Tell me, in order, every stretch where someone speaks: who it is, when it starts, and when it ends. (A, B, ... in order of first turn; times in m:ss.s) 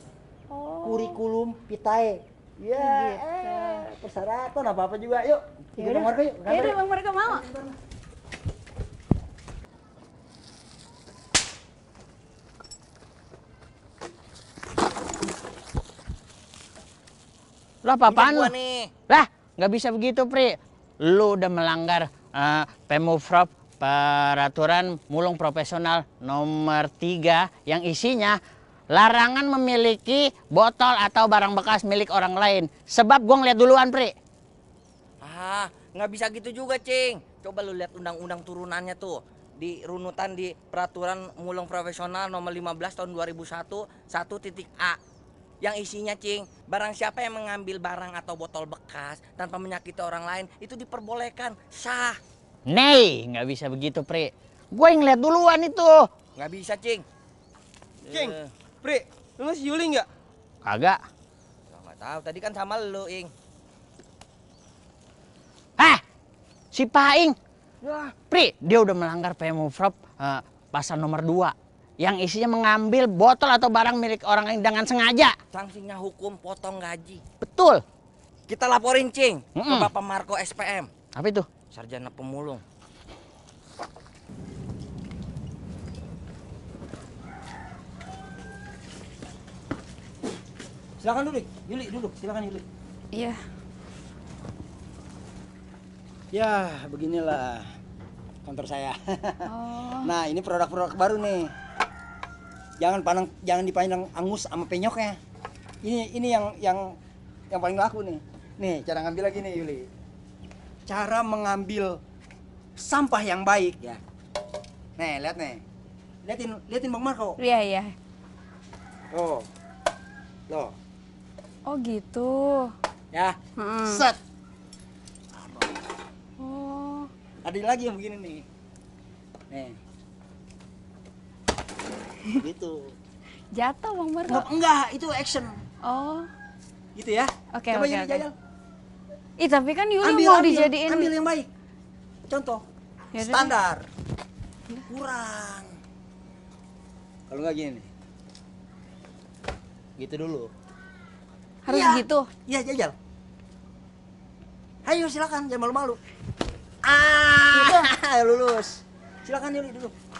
0:00.5-0:01.2 A
0:00.8-0:06.8 B
0:02.8-0:03.8 A
0:05.8-0:07.4 A
0:07.3-0:07.7 B
0:17.8-0:18.5 C
0:18.1-0:18.9 D
0:19.1-0:28.4 C
0:28.9-0:34.1 C
0:35.2-0:45.0 D
0:45.6-0:52.2 D
0:52.7-0:56.0 C
0:56.4-0:57.0 D
0:58.0-0:58.5 D
0:58.1-1:00.1 E
1:00.6-1:01.0 C
1:01.7-1:03.3 D
1:06.7-1:07.4 C
1:07.8-1:08.1 E
1:08.3-1:15.3 C
1:15.5-1:17.2 D
1:17.4-1:17.8 C
1:18.5-1:20.9 D
1:19.6-1:19.9 C
1:21.2-1:21.5 C
1:21.7-1:22.6 D
1:31.0-1:32.6 B
1:33.1-1:33.4 A
1:36.3-1:37.7 B
1:38.4-1:39.4 B
1:39.4-1:40.1 A
1:40.0-1:41.5 B
1:42.8-1:45.2 B
1:45.8-1:47.0 B
1:47.5-1:49.9 B
1:50.9-1:52.0 B
1:52.8-1:54.0 B
1:55.0-1:55.6 B
1:56.2-1:57.4 B
1:57.4-1:57.9 A
1:59.1-1:59.5 B
2:01.6-2:02.7 A
2:03.1-2:04.2 B
2:03.6-2:04.0 A
2:05.4-2:05.7 B
2:06.4-2:07.1 A
2:07.4-2:08.4 B
2:09.5-2:09.8 B
2:12.4-2:12.9 B
2:13.5-2:14.4 A
2:14.3-2:15.6 B
2:15.8-2:16.3 A
2:16.9-2:18.3 B
2:17.5-2:18.2 A
2:19.4-2:21.1 A
2:20.0-2:21.5 B
2:22.3-2:22.6 B
2:23.1-2:23.5 A
2:23.2-2:23.8 B
2:24.9-2:25.7 B
2:27.3-2:27.9 B
2:30.0-2:30.5 B
2:31.6-2:32.3 A
2:31.7-2:32.9 B
2:34.8-2:36.0 B
2:36.8-2:39.9 B